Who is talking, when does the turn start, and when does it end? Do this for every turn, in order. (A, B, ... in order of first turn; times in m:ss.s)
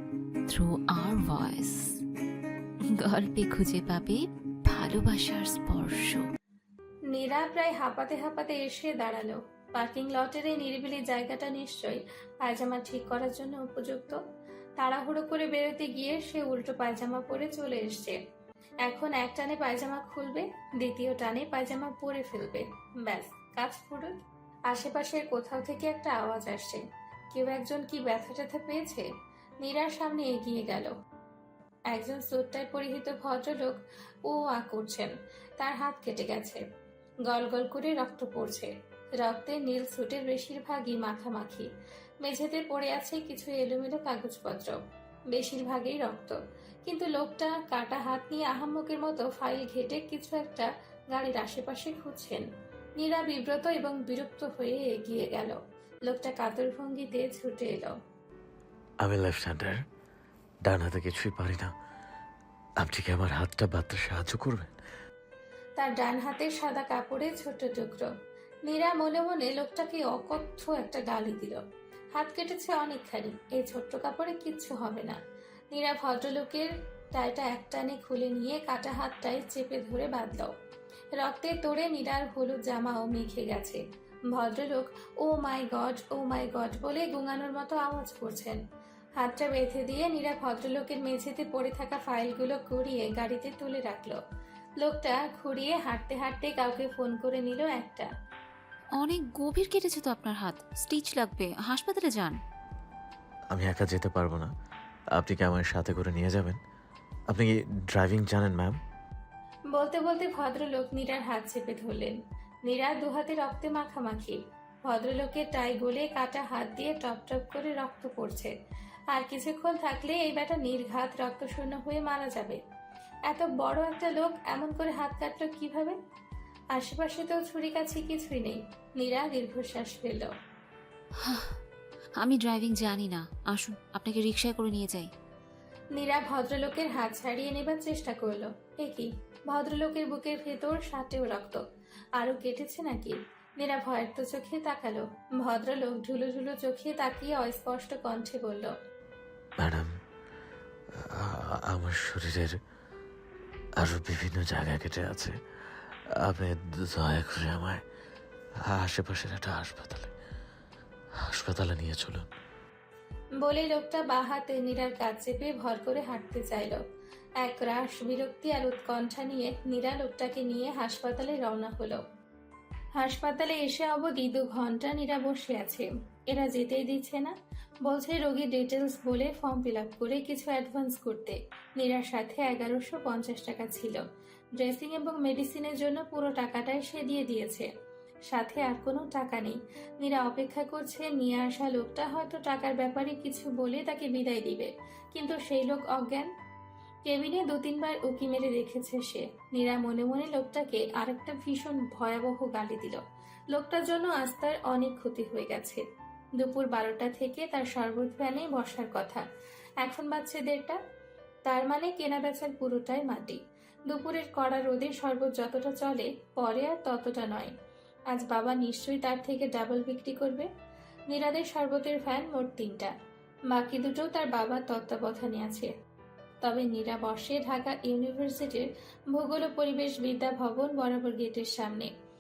0:00.5-0:01.9 A
0:03.0-0:06.2 A
0:07.1-0:14.2 B
0:14.8-0:18.2 B
0:18.8-0:24.2 B
0:24.7-0:29.0 B
0:29.6-0:30.9 B
0:31.9-0:36.6 B
0:37.3-0:38.7 B
0:39.2-0:41.7 B
0:42.2-0:44.8 B
0:45.3-0:52.4 B
0:53.0-0:58.0 B
0:59.0-0:59.8 C
1:00.6-1:01.7 C
1:02.8-1:04.7 C
1:05.8-1:08.1 B
1:08.7-1:11.6 B
1:12.2-1:15.2 B
1:15.7-1:20.5 B
1:21.2-1:23.8 B
1:24.3-1:28.6 B
1:29.2-1:34.2 B
1:34.8-1:38.1 B
1:39.0-1:42.4 A
1:43.5-1:44.5 C
1:45.1-1:46.6 C
1:47.3-1:48.8 C
1:49.7-1:58.5 B
1:59.1-2:02.6 B
2:03.3-2:06.0 B
2:06.8-2:10.3 B
2:11.2-2:11.5 A
2:12.2-2:15.1 A
2:16.0-2:21.6 B
2:22.2-2:28.7 B
2:29.6-2:29.9 C
2:31.0-2:32.6 C
2:33.8-2:35.4 C
2:36.2-2:37.8 C
2:38.6-2:40.1 C
2:41.3-2:42.3 C
2:43.4-2:46.8 B
2:47.4-2:52.0 B
2:53.0-2:57.3 B
2:57.8-3:04.0 B
3:04.6-3:07.7 B
3:08.3-3:16.3 B
3:17.1-3:23.0 B
3:23.5-3:25.8 B
3:26.4-3:29.2 B
3:29.8-3:30.8 B
3:31.5-3:37.5 B
3:38.1-3:40.5 B
3:41.1-3:42.9 B
3:43.5-3:45.7 B
3:46.4-3:51.9 B